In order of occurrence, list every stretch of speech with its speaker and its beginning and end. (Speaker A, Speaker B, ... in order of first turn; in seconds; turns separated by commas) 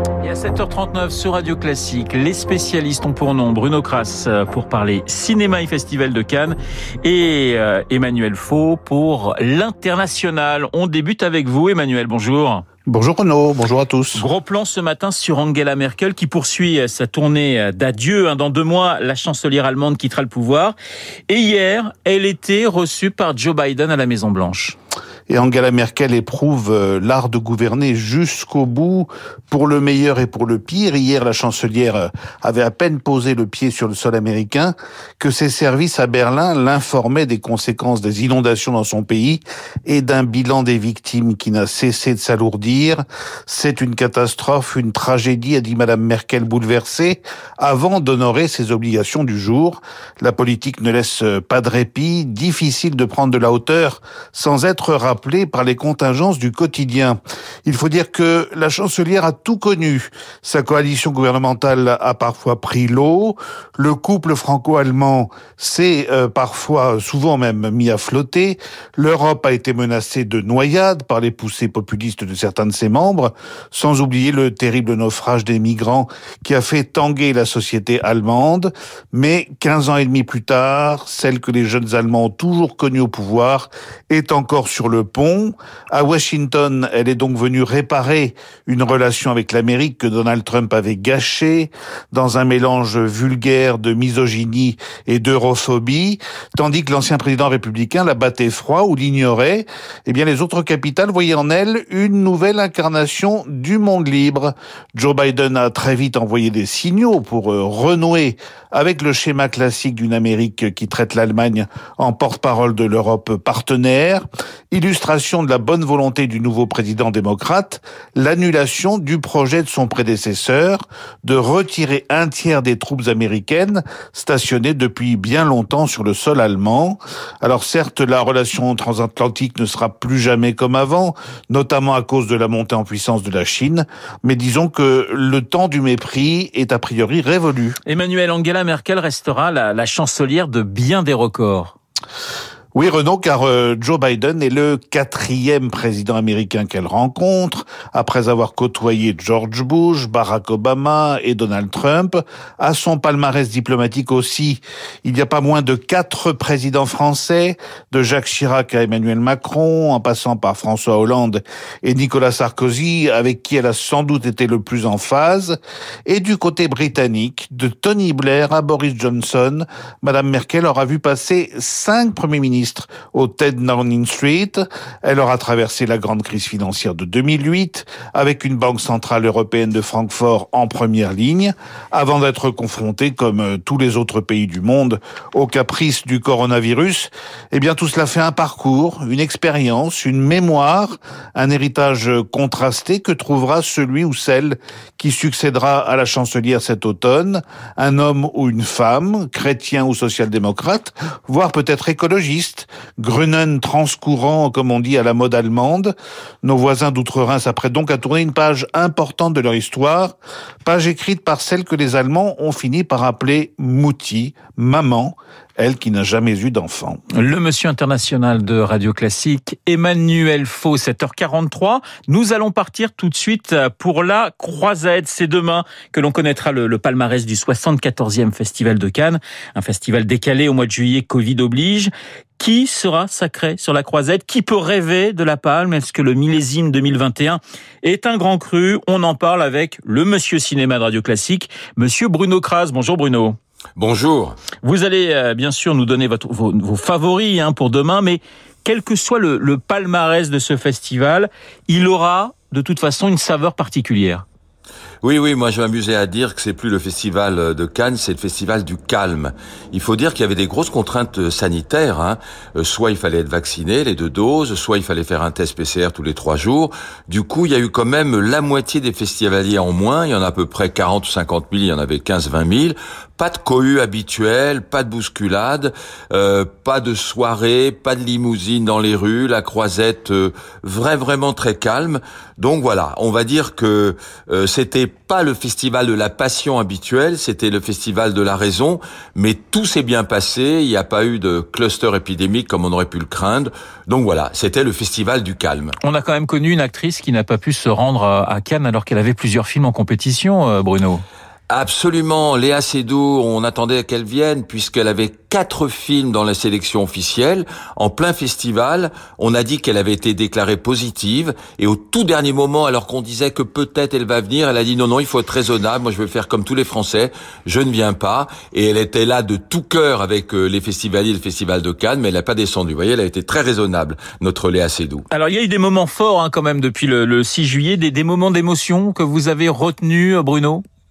Speaker A: 0.2-12.6, Speaker B: 12.9-14.2, Speaker A: 14.2-20.8, Speaker A: 21.3-24.8, Speaker B: 25.3-137.8, Speaker A: 137.8-141.7, Speaker B: 142.8-217.0, Speaker A: 217.1-243.4, Speaker C: 243.8-244.4, Speaker A: 244.6-254.2, Speaker C: 255.0-295.8, Speaker A: 295.8-301.0, Speaker C: 301.5-325.1, Speaker A: 325.1-330.6